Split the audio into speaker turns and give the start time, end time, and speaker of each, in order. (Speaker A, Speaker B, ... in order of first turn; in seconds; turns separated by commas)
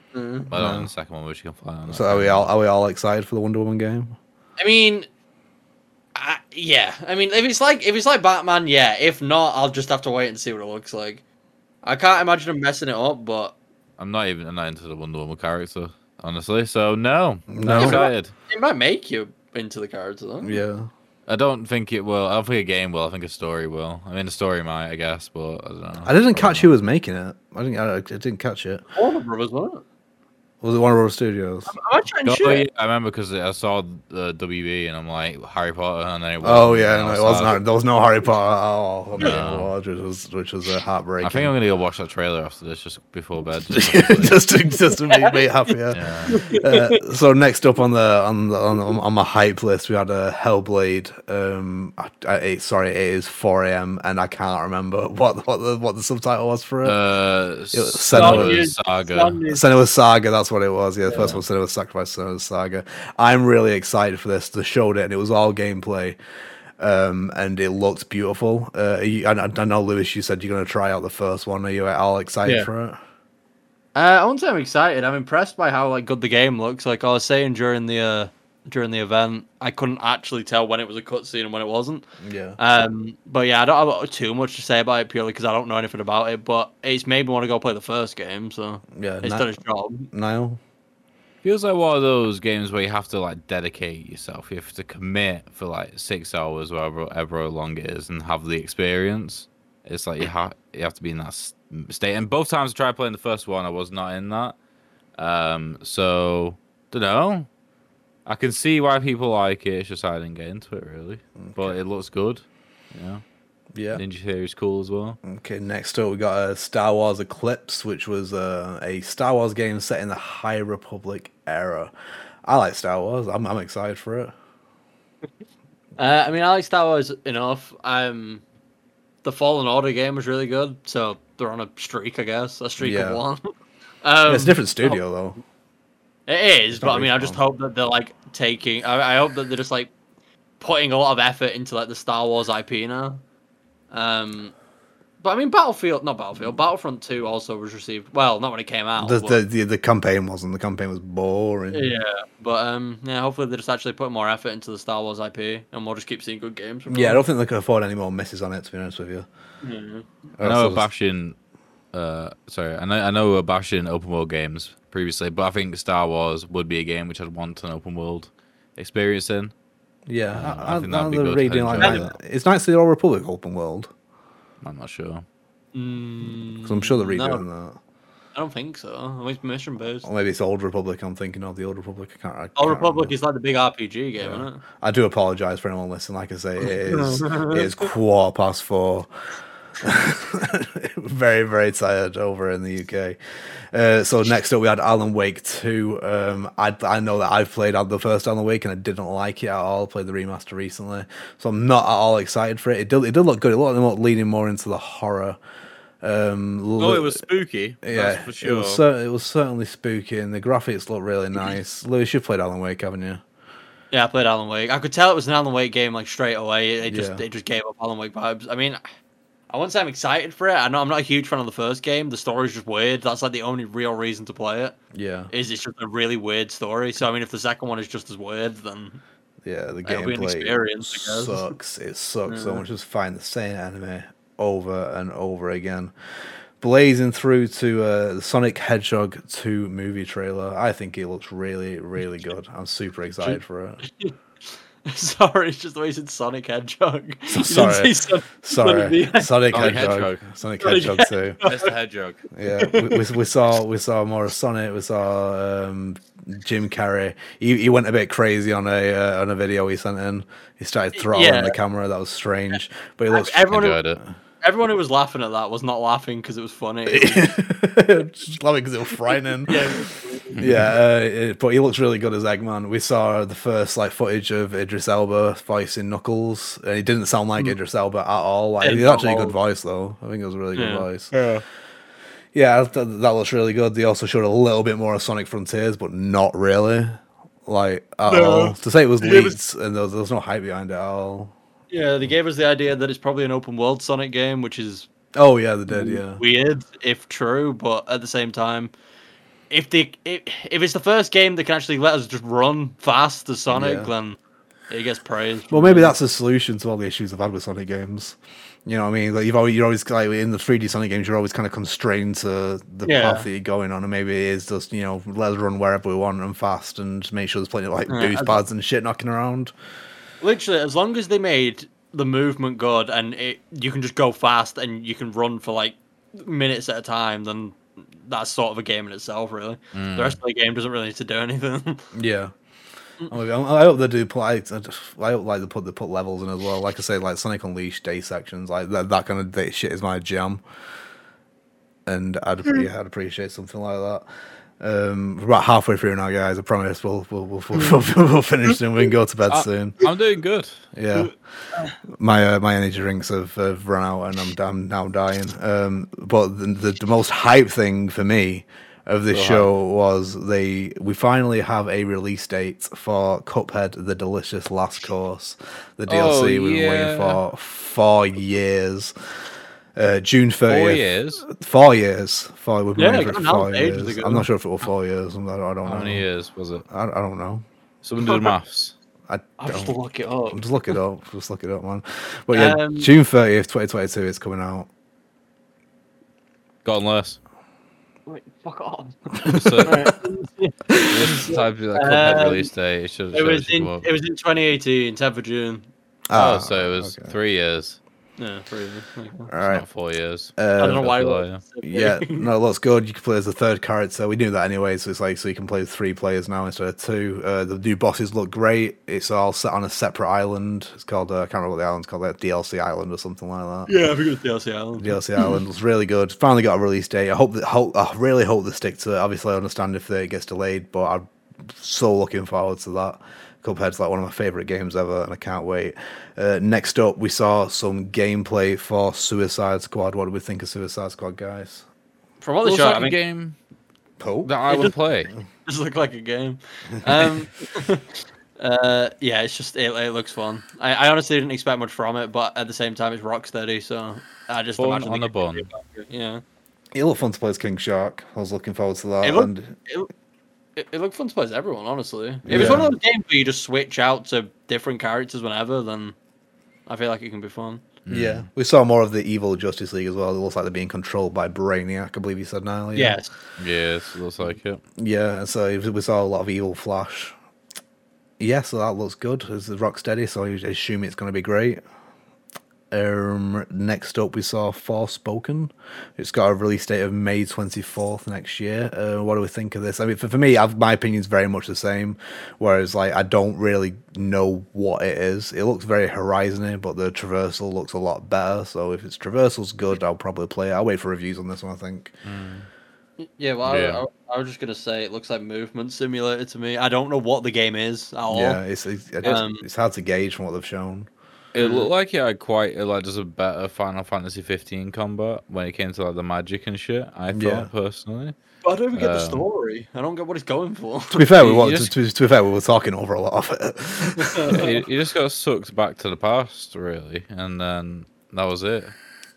Speaker A: 0.1-0.5, Speaker B: 0.5-2.5, Speaker C: 0.5-0.9, Speaker C: 1.9-4.1, Speaker A: 4.6-5.1, Speaker A: 6.1-11.2, Speaker A: 11.8-13.5, Speaker B: 14.0-18.3, Speaker C: 17.5-18.1, Speaker A: 17.6-20.6, Speaker C: 20.4-20.9, Speaker B: 21.3-26.7, Speaker C: 26.0-28.8, Speaker A: 28.9-29.8, Speaker C: 30.6-31.7, Speaker A: 31.7-32.6, Speaker B: 32.2-37.6, Speaker C: 36.4-41.5, Speaker B: 39.2-39.7, Speaker B: 41.2-44.4, Speaker C: 43.7-57.0, Speaker B: 45.9-46.4, Speaker A: 46.3-47.0, Speaker B: 56.8-59.4, Speaker C: 57.7-58.7, Speaker A: 58.1-59.6, Speaker C: 59.5-66.2, Speaker A: 61.0-61.3, Speaker B: 61.1-61.4, Speaker C: 66.8-73.0, Speaker A: 73.9-82.0, Speaker C: 82.2-82.6, Speaker A: 82.6-90.1, Speaker C: 88.9-89.5, Speaker C: 90.1-90.6, Speaker B: 91.4-104.5, Speaker B: 105.2-107.5, Speaker B: 108.2-113.2, Speaker C: 111.4-111.8, Speaker C: 113.7-114.0, Speaker B: 113.9-115.2, Speaker C: 115.2-121.9, Speaker C: 122.4-124.3, Speaker A: 126.0-128.4, Speaker A: 129.2-133.4, Speaker C: 132.8-133.2, Speaker A: 134.0-135.0, Speaker C: 134.2-135.4, Speaker A: 136.3-139.9, Speaker C: 136.7-137.4, Speaker A: 140.6-143.2, Speaker A: 143.9-144.5, Speaker A: 145.2-149.4, Speaker C: 149.0-151.9, Speaker A: 151.7-157.2, Speaker C: 156.9-159.3, Speaker A: 159.6-160.1, Speaker C: 160.4-160.8, Speaker B: 160.4-161.3, Speaker B: 161.9-169.5, Speaker C: 170.1-173.9, Speaker B: 170.3-172.1, Speaker B: 174.6-175.2, Speaker A: 175.7-177.4, Speaker C: 176.6-177.8, Speaker A: 178.3-180.1, Speaker C: 180.0-183.1, Speaker A: 182.6-184.6, Speaker C: 184.2-189.1, Speaker A: 186.8-187.6, Speaker C: 189.8-193.2, Speaker C: 193.7-205.4, Speaker C: 206.0-207.2, Speaker B: 206.8-208.8, Speaker C: 207.8-213.2, Speaker A: 213.9-218.8, Speaker C: 216.9-217.2, Speaker A: 219.5-224.8, Speaker C: 224.9-225.3, Speaker A: 225.3-229.0, Speaker C: 229.4-235.9, Speaker A: 229.8-231.5, Speaker A: 232.3-232.6, Speaker C: 236.6-243.8, Speaker A: 243.2-244.1, Speaker A: 244.8-249.5, Speaker C: 247.3-251.4, Speaker B: 249.5-250.3, Speaker A: 250.6-251.7, Speaker B: 251.4-252.2, Speaker C: 252.3-264.1, Speaker A: 252.6-253.1, Speaker A: 260.9-261.6, Speaker A: 263.1-263.8, Speaker B: 263.5-264.0, Speaker A: 264.4-267.3, Speaker C: 266.9-269.8, Speaker A: 269.4-270.4, Speaker B: 270.4-270.7, Speaker C: 270.4-281.1, Speaker A: 278.6-279.4, Speaker A: 280.5-281.3, Speaker C: 282.3-291.3, Speaker A: 288.1-289.4, Speaker A: 291.7-294.9, Speaker C: 295.1-296.2, Speaker A: 295.7-298.7, Speaker A: 299.5-304.2, Speaker C: 303.5-303.9, Speaker A: 304.7-305.9, Speaker C: 305.5-319.5, Speaker A: 312.8-313.3, Speaker A: 317.9-318.4, Speaker A: 320.2-331.9, Speaker B: 329.7-330.2, Speaker C: 331.9-332.3, Speaker C: 333.1-340.4, Speaker C: 341.9-344.0, Speaker C: 344.6-349.8, Speaker B: 349.3-350.6, Speaker C: 350.7-351.1, Speaker A: 350.9-351.7, Speaker C: 351.9-368.9, Speaker B: 359.1-359.5, Speaker B: 365.9-367.2, Speaker C: 369.8-376.0, Speaker B: 370.5-371.2, Speaker A: 372.8-374.3, Speaker B: 375.6-376.6, Speaker C: 376.7-377.4, Speaker B: 377.8-378.7, Speaker A: 378.0-378.3, Speaker C: 379.1-379.7, Speaker A: 379.4-380.4, Speaker C: 380.3-384.7, Speaker A: 382.3-382.9, Speaker B: 386.6-387.2, Speaker A: 388.1-392.5, Speaker B: 389.3-389.9, Speaker C: 389.3-389.8, Speaker B: 390.9-393.9, Speaker A: 393.1-395.7, Speaker C: 396.1-397.1, Speaker B: 396.1-397.8, Speaker A: 398.2-399.3, Speaker C: 399.3-399.6, Speaker B: 399.4-401.4, Speaker C: 400.4-400.9, Speaker A: 400.6-402.3, Speaker C: 401.6-413.7, Speaker A: 413.7-415.4, Speaker C: 414.8-431.6, Speaker A: 432.2-433.0, Speaker B: 432.4-433.4, Speaker C: 434.0-434.3, Speaker B: 434.2-435.1, Speaker A: 434.5-434.7, Speaker A: 435.4-446.2, Speaker B: 444.6-445.5, Speaker C: 446.7-449.5, Speaker A: 449.0-449.9, Speaker A: 450.6-455.9, Speaker C: 452.2-452.7, Speaker A: 456.7-457.6, Speaker B: 457.9-458.3, Speaker C: 457.9-463.0, Speaker A: 462.7-463.1, Speaker B: 463.4-464.6, Speaker C: 464.8-467.1, Speaker C: 468.2-471.6, Speaker C: 472.7-491.9, Speaker B: 492.0-492.5, Speaker A: 493.0-498.4, Speaker B: 493.4-493.8, Speaker C: 498.1-500.9, Speaker A: 499.0-499.4, Speaker B: 501.3-508.1, Speaker A: 501.4-501.7, Speaker C: 507.1-507.5, Speaker A: 508.4-511.2, Speaker B: 508.7-509.2, Speaker C: 510.9-514.4, Speaker B: 511.2-511.7, Speaker A: 514.0-514.6, Speaker B: 514.3-518.7